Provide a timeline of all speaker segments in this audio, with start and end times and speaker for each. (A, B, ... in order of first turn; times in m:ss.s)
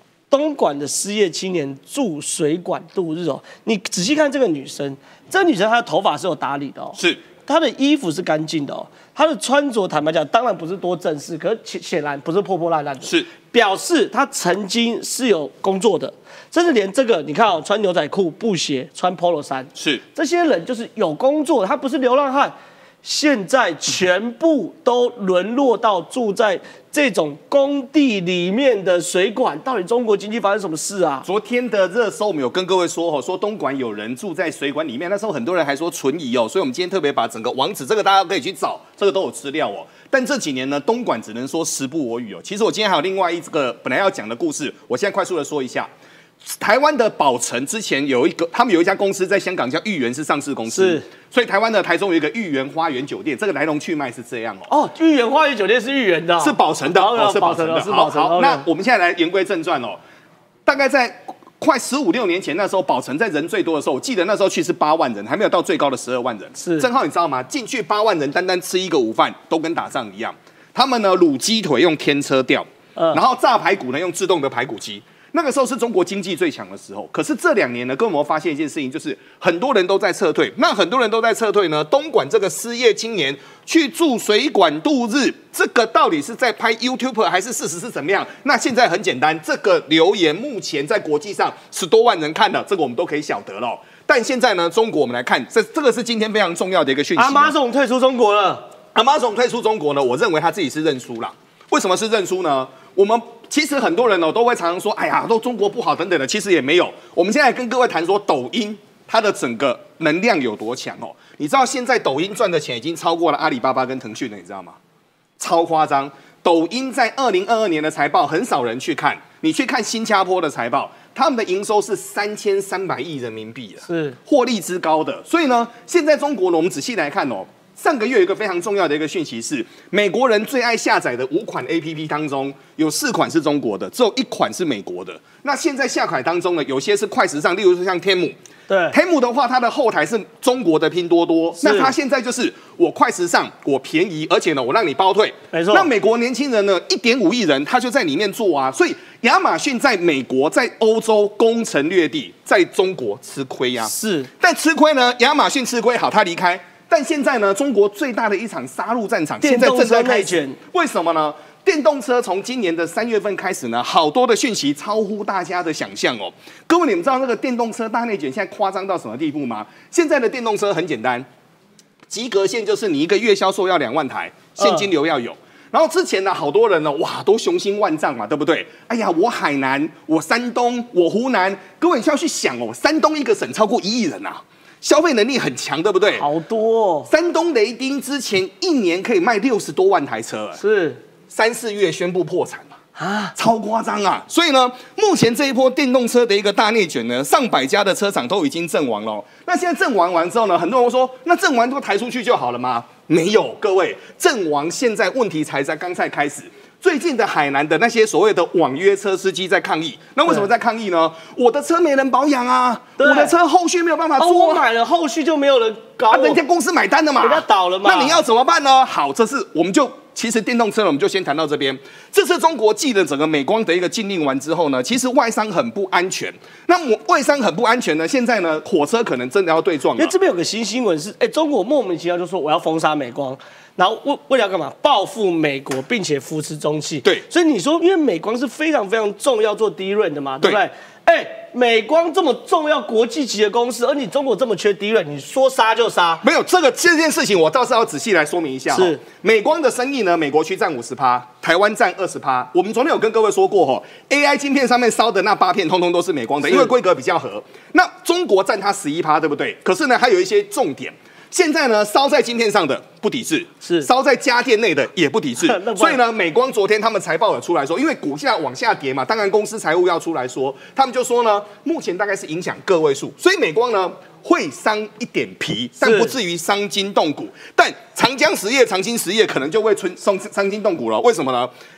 0:00.3-0:31.2 A
0:07.0-0:07.2 B
0:13.0-0:13.3 B
0:19.8-0:20.0 B
0:31.2-0:45.9 B
0:46.4-0:54.7 B
0:50.7-0:51.0 A
0:54.7-0:58.6 A
0:56.4-1:00.0 B
1:00.6-1:37.5 B
1:06.6-1:06.9 A
1:37.2-1:38.6 A
1:38.9-1:54.8 B
1:55.4-2:18.4 B
2:03.9-2:04.2 A
2:18.7-2:18.9 A
2:18.9-2:51.2 B
2:21.6-2:21.9 A
2:25.5-2:25.9 A
2:33.8-2:34.3 A
2:39.4-2:40.6 A
2:52.1-3:06.3 B
2:54.6-2:54.8 A
3:06.1-3:07.1 A
3:07.1-3:10.6 B
3:10.6-3:11.0 A
3:11.3-3:12.7 B
3:13.0-3:13.3 A
3:13.3-3:34.6 B
3:33.0-3:33.3 A
3:34.2-3:36.4 A
3:36.1-3:50.1 B
3:37.2-3:38.2 A
3:50.0-4:06.2 A
4:06.2-4:41.5 B
4:08.7-4:09.0 A
4:16.4-4:16.7 A
4:23.6-4:23.9 A
4:25.4-4:26.0 A
4:35.8-4:36.1 A